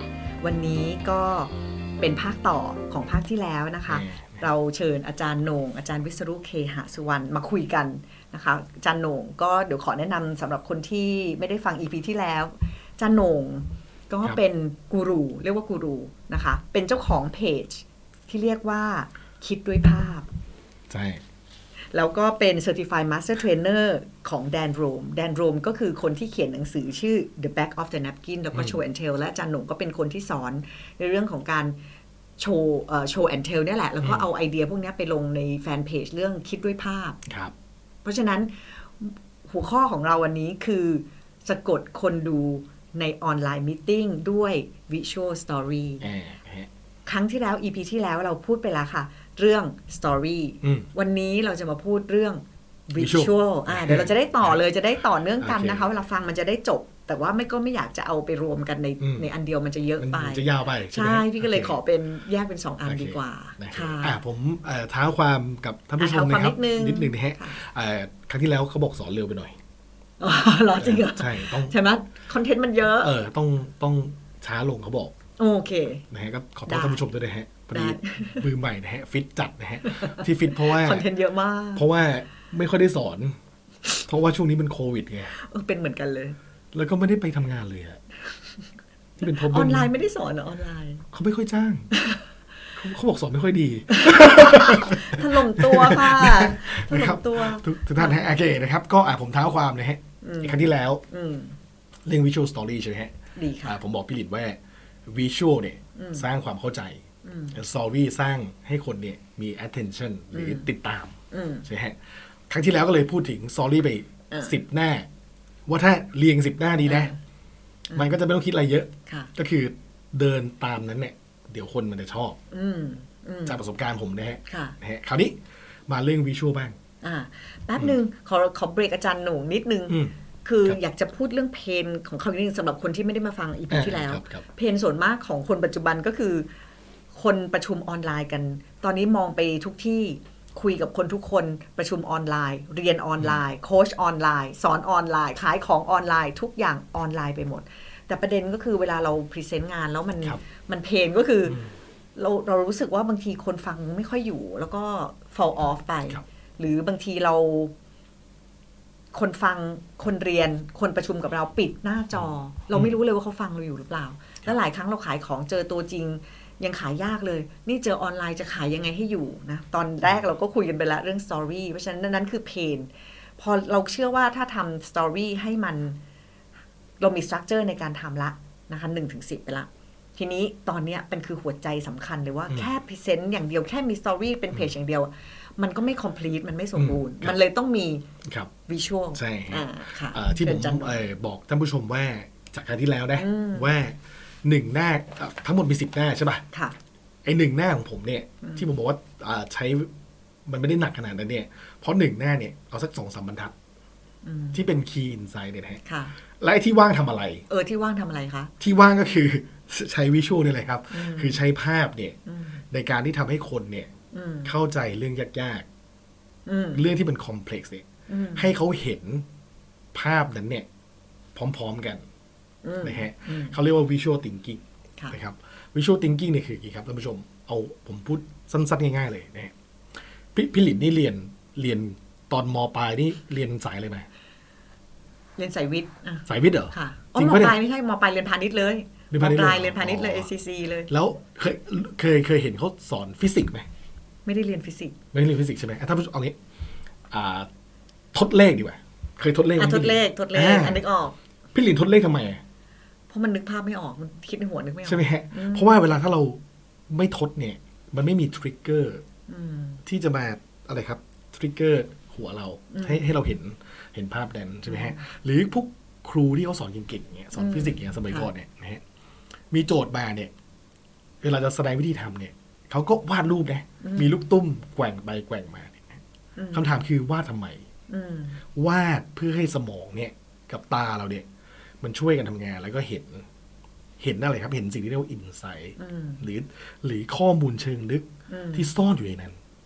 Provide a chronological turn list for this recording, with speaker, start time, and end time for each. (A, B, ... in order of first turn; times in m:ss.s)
0:00.4-0:20.3 A
0:03.9-0:04.5 B
0:20.9-0:21.2 B
0:21.9-0:31.8 A
0:32.4-0:37.2 A
0:37.3-0:37.5 B
0:38.0-0:46.1 A
0:46.0-0:46.7 B
0:47.1-1:04.2 A
0:50.6-0:50.9 B
0:53.0-0:54.6 B
0:55.4-0:55.8 B
0:59.0-0:59.3 B
1:00.0-1:01.8 B
1:02.8-1:09.6 B
1:06.0-1:07.6 A
1:10.2-1:13.1 A
1:10.8-1:11.7 B
1:13.0-1:15.2 B
1:15.4-1:16.0 A
1:16.1-1:21.0 B
1:16.7-1:17.0 A
1:17.7-1:18.5 A
1:19.8-1:21.9 A
1:21.8-1:23.4 B
1:24.1-1:25.3 B
1:25.3-1:26.4 A
1:26.7-1:28.0 B
1:28.3-1:28.7 A
1:29.2-1:29.9 B
1:29.3-1:31.0 A
1:31.1-1:31.9 B
1:31.9-1:32.2 A
1:32.8-1:41.0 B
1:33.9-1:38.3 A
1:40.2-1:41.6 A
1:42.1-1:43.1 B
1:43.4-1:43.8 A
1:43.6-1:47.0 B
1:46.0-1:46.3 A
1:47.2-1:47.6 A
1:47.5-1:51.2 B
1:50.3-1:50.7 A
1:51.3-1:51.7 A
1:51.7-1:52.0 B
1:52.5-1:55.1 B
1:54.3-1:54.6 A
1:55.7-1:57.1 B
1:56.8-1:57.2 A
1:57.9-1:58.2 A
1:58.0-2:02.4 B
1:59.1-1:59.3 A
2:02.5-2:03.6 A
2:03.5-2:05.4 B
2:04.5-2:04.8 A
2:05.9-2:06.8 B
2:07.0-2:16.5 A
2:13.7-2:14.4 B
2:17.1-2:31.6 A
2:32.2-2:37.7 A
2:39.1-2:56.0 A
2:57.0-3:08.1 A
3:06.8-3:07.4 B
3:08.2-3:08.5 B
3:08.7-3:11.0 A
3:09.2-3:16.4 B
3:13.2-3:13.7 A
3:17.2-3:19.9 B
3:18.4-3:18.7 A
3:20.5-3:23.5 B
3:24.2-3:24.6 A
3:24.5-3:25.8 B
3:25.8-3:26.1 A
3:26.4-3:27.4 B
3:27.5-3:28.5 A
3:28.6-3:32.2 B
3:30.9-3:31.4 A
3:32.3-3:32.6 A
3:32.7-3:33.9 B
3:34.1-3:34.5 A
3:34.5-3:35.7 B
3:36.5-3:36.8 A
3:36.7-3:39.3 B
3:38.1-3:38.5 A
3:39.9-3:40.7 B
3:41.4-3:42.0 B
3:42.6-3:43.6 A
3:42.8-3:49.5 B
3:50.4-3:54.1 B
3:55.4-4:00.9 A
3:56.3-3:57.6 B
3:59.1-4:00.3 B
4:00.9-4:03.7 B
4:04.3-4:05.0 A
4:05.1-4:06.4 B
4:07.1-4:07.5 B
4:08.1-4:10.8 B
4:09.6-4:11.2 A
4:11.5-4:12.4 B
4:13.1-4:15.7 A
4:14.9-4:19.0 B
4:19.3-4:19.8 A
4:19.9-4:28.8 B
4:22.7-4:23.1 A
4:24.7-4:25.0 A
4:27.4-4:28.3 A
4:29.5-4:30.3 B
4:31.2-4:36.0 B
4:33.8-4:34.1 A
4:36.4-4:36.7 A
4:36.5-4:37.6 B
4:37.9-4:38.4 A
4:38.6-4:41.3 B
4:41.8-4:43.3 B
4:44.0-4:49.4 B
4:45.8-4:46.2 A
4:48.3-4:48.7 A